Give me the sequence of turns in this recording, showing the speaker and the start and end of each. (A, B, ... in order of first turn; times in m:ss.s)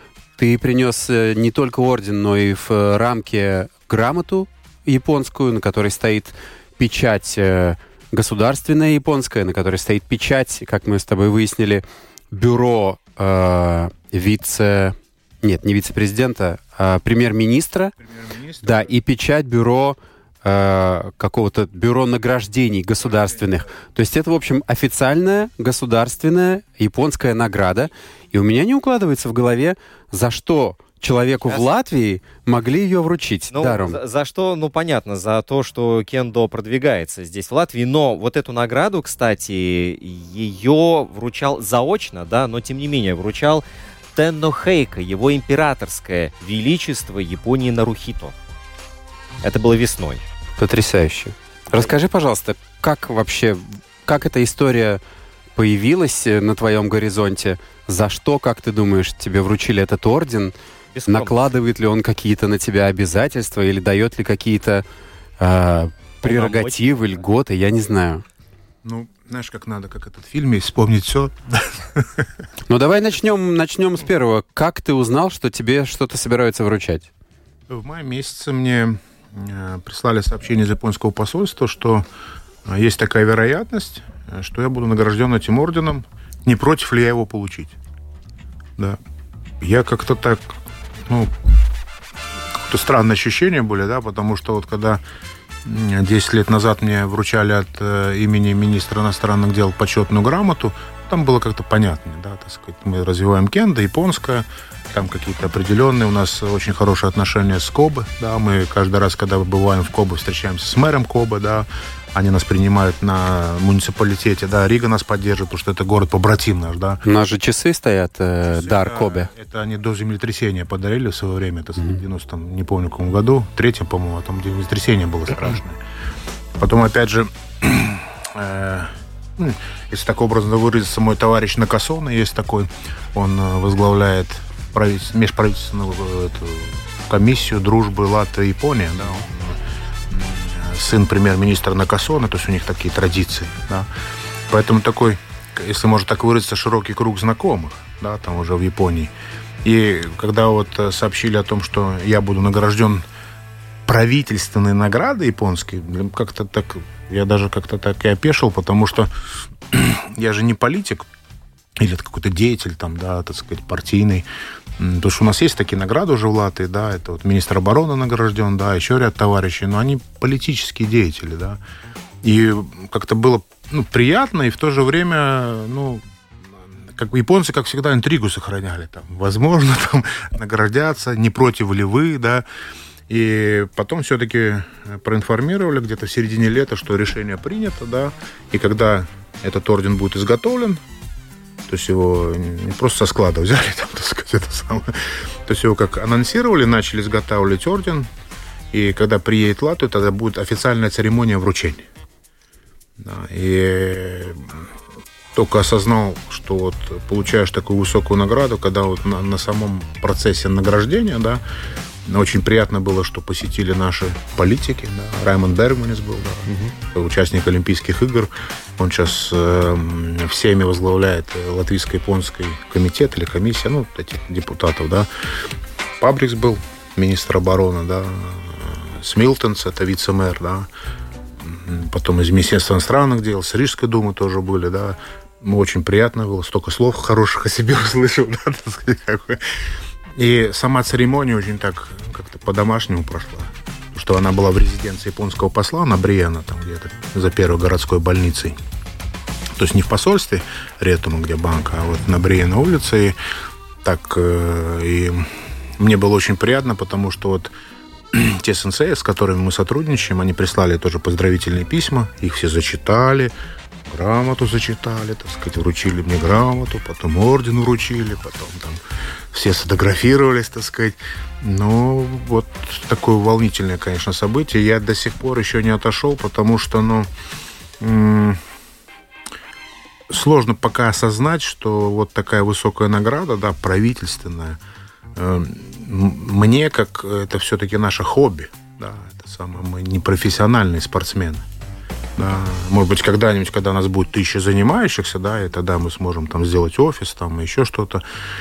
0:00.4-0:17.9 A
0:18.0-0:18.9 B
0:18.6-0:34.0 A
0:23.0-0:23.5 B
0:33.5-0:43.6 C
0:44.1-0:48.4 C
0:49.4-0:50.2 C
0:50.6-0:55.0 A
0:55.6-1:00.5 A
1:00.9-1:01.5 C
1:01.1-1:04.8 A
1:05.4-1:08.2 A
1:06.2-1:07.2 C
1:08.8-1:12.3 B
1:12.7-1:17.1 A
1:17.7-1:22.0 B
1:22.6-1:27.8 B
1:29.6-1:31.3 B
1:32.5-1:35.0 B
1:35.6-1:57.0 B
1:57.0-1:59.3 A
1:58.5-2:05.8 B
2:06.6-2:23.9 B
2:24.5-2:33.0 B
2:33.9-2:39.1 B
2:39.7-2:41.1 B
2:41.8-2:51.6 B
2:52.2-3:02.4 B
3:03.1-3:10.8 B
3:11.7-3:18.1 B
3:18.7-3:21.9 B
3:23.0-3:24.7 B
3:25.3-3:31.4 B
3:32.0-3:50.7 B
3:36.5-3:36.7 C
3:51.4-4:08.6 B
4:09.6-4:13.2 B
4:13.8-4:17.5 B
4:18.1-4:23.3 B
4:23.9-4:37.1 B
4:37.8-4:38.4 B
4:40.1-4:44.6 B
4:45.1-4:51.4 B
4:52.2-4:58.0 B